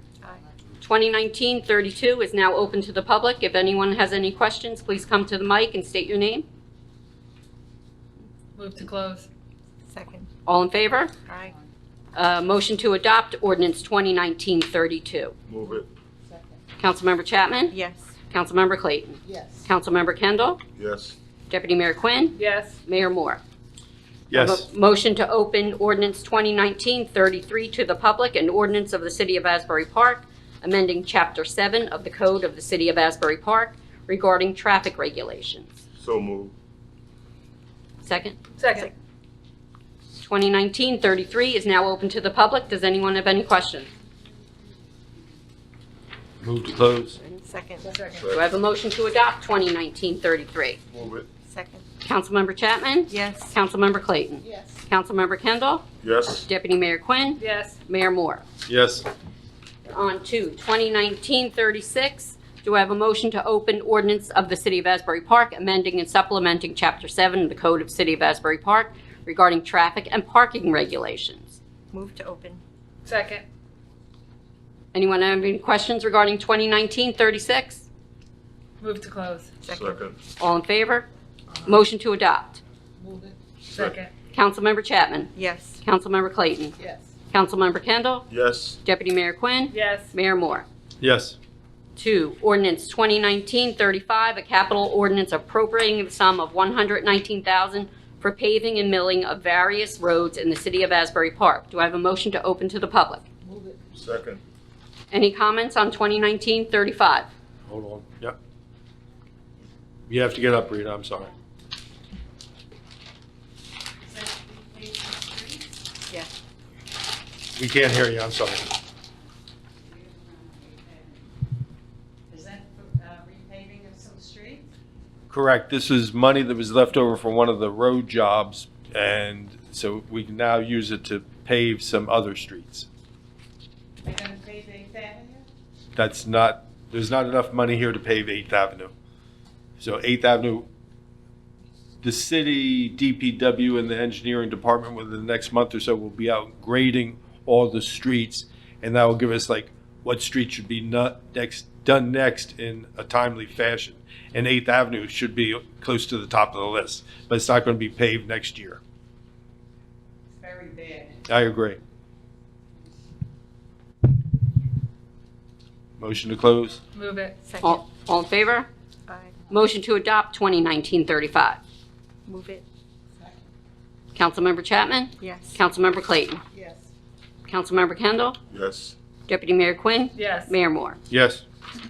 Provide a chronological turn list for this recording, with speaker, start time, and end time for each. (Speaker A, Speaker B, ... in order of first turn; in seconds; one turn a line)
Speaker A: 0.8-6.5
Speaker B: 8.6-9.3
Speaker C: 9.9-10.3
Speaker A: 10.5-11.1
Speaker C: 11.3-11.5
Speaker A: 12.2-15.3
Speaker D: 15.5-15.9
Speaker E: 16.3-16.6
Speaker A: 16.8-17.8
Speaker C: 17.7-18.1
Speaker A: 18.3-20.6
Speaker E: 19.3-19.7
Speaker D: 20.8-21.2
Speaker A: 21.5-23.4
Speaker B: 22.4-22.8
Speaker F: 24.3-24.6
Speaker A: 24.3-35.8
Speaker D: 36.0-36.5
Speaker A: 38.0-38.4
Speaker B: 38.6-38.9
Speaker A: 40.2-43.9
Speaker F: 46.4-47.2
Speaker C: 47.2-48.0
Speaker E: 47.9-48.2
Speaker B: 47.9-48.3
Speaker D: 48.2-48.5
Speaker A: 48.3-50.8
Speaker D: 50.9-51.3
Speaker C: 51.4-51.8
Speaker A: 52.0-55.9
Speaker C: 53.1-53.5
Speaker E: 54.4-54.8
Speaker D: 56.0-56.5
Speaker A: 56.5-58.4
Speaker B: 57.4-57.8
Speaker F: 58.7-59.1
Speaker A: 59.9-71.6
Speaker C: 71.9-72.6
Speaker B: 73.1-73.5
Speaker A: 74.9-77.9
Speaker B: 78.8-79.5
Speaker C: 79.7-80.0
Speaker D: 79.7-80.2
Speaker A: 80.4-81.1
Speaker A: 81.6-82.6
Speaker E: 83.0-83.5
Speaker D: 83.6-84.0
Speaker B: 83.7-84.1
Speaker A: 84.3-85.3
Speaker C: 85.4-85.8
Speaker A: 85.8-86.8
Speaker E: 86.8-87.1
Speaker A: 87.3-88.3
Speaker D: 88.3-88.8
Speaker A: 88.8-90.7
Speaker B: 89.7-90.1
Speaker F: 91.0-91.4
Speaker A: 92.0-103.2
Speaker E: 103.5-103.9
Speaker D: 104.0-104.4
Speaker A: 105.1-107.3
Speaker F: 107.7-108.4
Speaker F: 110.1-111.3
Speaker G: 114.0-115.7
Speaker F: 117.6-118.7
Speaker G: 119.8-121.2
Speaker G: 122.3-124.7
Speaker F: 125.3-132.9
Speaker G: 134.0-135.4
Speaker F: 136.0-138.9
Speaker F: 139.8-140.7
Speaker F: 142.0-158.8
Speaker G: 160.4-161.2
Speaker F: 161.3-161.8
Speaker F: 166.0-166.8
Speaker B: 166.9-167.4
Speaker C: 167.4-167.8
Speaker A: 167.6-168.7
Speaker C: 169.1-169.4
Speaker A: 169.5-171.6
Speaker C: 172.3-172.6
Speaker A: 174.2-176.4
Speaker C: 175.2-175.6
Speaker E: 176.5-176.9
Speaker A: 177.5-178.4
Speaker D: 178.5-178.9
Speaker A: 179.3-181.0
Speaker B: 180.2-180.6
Speaker F: 181.1-181.4